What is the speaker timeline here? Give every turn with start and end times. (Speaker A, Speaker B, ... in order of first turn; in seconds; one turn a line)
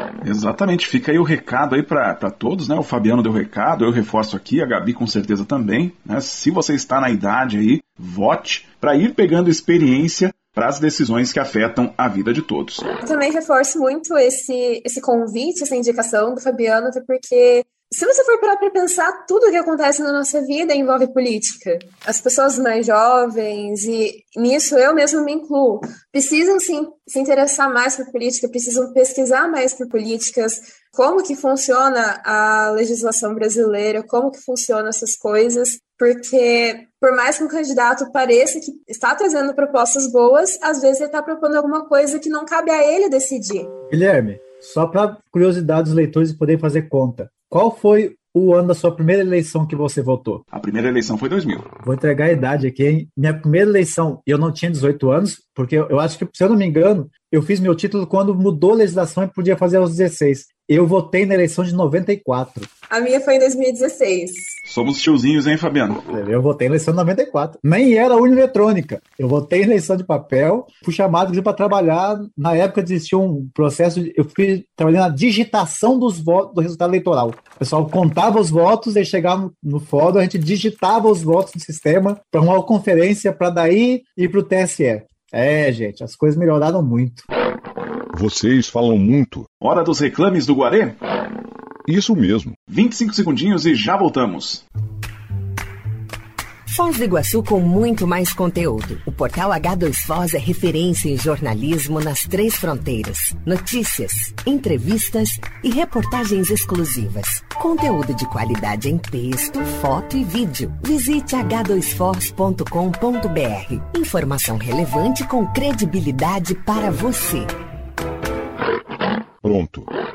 Speaker A: 0.2-12.9
Speaker B: 13.0-43.7
Speaker C: 43.9-50.4
Speaker A: 50.5-51.6
Speaker C: 51.8-62.7
Speaker B: 62.9-64.6
Speaker A: 64.7-66.0
Speaker C: 66.1-87.3
Speaker D: 88.1-89.5
Speaker A: 89.6-91.0
Speaker D: 91.8-92.6
Speaker A: 92.7-94.6
Speaker E: 96.7-117.5
Speaker D: 119.4-119.9